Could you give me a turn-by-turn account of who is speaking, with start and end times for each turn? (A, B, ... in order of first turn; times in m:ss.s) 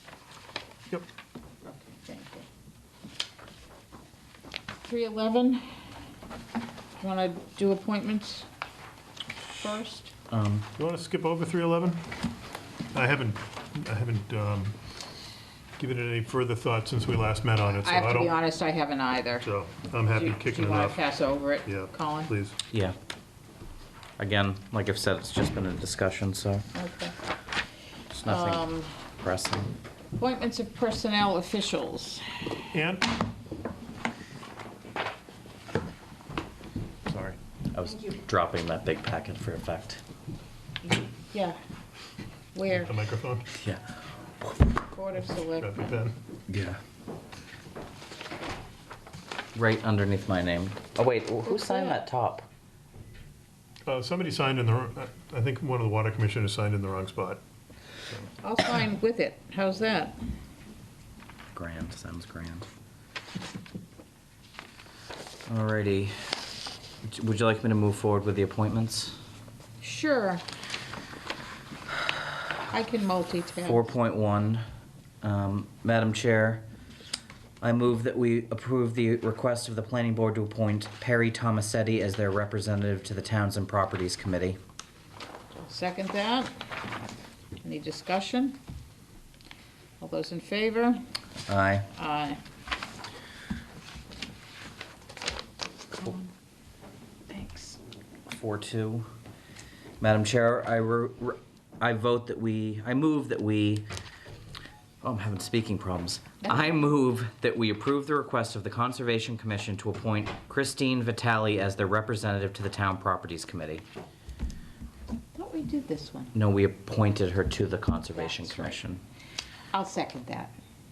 0:01.6-0:02.5 A
0:04.8-0:05.8 A
0:07.0-0:08.4 A
0:09.5-0:10.1 A
0:10.3-0:10.7 B
0:10.8-0:12.0 C
0:12.9-0:14.7 C
0:15.8-0:18.4 C
0:17.8-0:19.5 A
0:19.4-0:21.0 C
0:20.1-0:22.3 A
0:21.6-0:22.6 C
0:24.2-0:26.6 B
0:26.7-0:27.1 A
0:28.1-0:28.6 B
0:28.2-0:29.0 A
0:29.2-0:29.7 B
0:30.2-0:32.5 A
0:32.7-0:33.0 C
0:37.1-0:37.4 C
0:37.7-0:40.0 B
0:40.8-0:41.6 A
0:42.5-0:42.9 A
0:42.8-0:43.5 C
0:43.5-0:44.7 B
0:44.9-0:45.9 A
0:45.6-0:46.1 C
0:46.5-0:46.8 B
0:49.5-0:52.4 B
0:51.4-0:52.0 A
0:53.8-0:57.4 C
0:58.4-1:00.1 A
1:01.5-1:02.7 B
1:05.5-1:06.1 B
1:07.0-1:09.2 B
1:09.8-1:10.4 A
1:12.7-1:13.9 A
1:13.6-1:14.6 B
1:15.2-1:16.6 B
1:17.6-1:24.6 B
1:25.6-1:26.5 A
1:27.6-1:28.6 A
1:30.0-1:31.0 A
1:31.5-1:31.9 B
1:31.9-1:32.4 A
1:35.9-1:36.3 A
1:37.3-1:37.8 A
1:38.3-1:39.1 B
1:40.0-1:43.8 B
1:45.0-1:53.8 B
1:46.4-1:46.8 A
1:55.3-1:56.3 A
1:56.3-1:59.0 B
1:58.2-1:58.8 A
1:59.7-2:00.5 A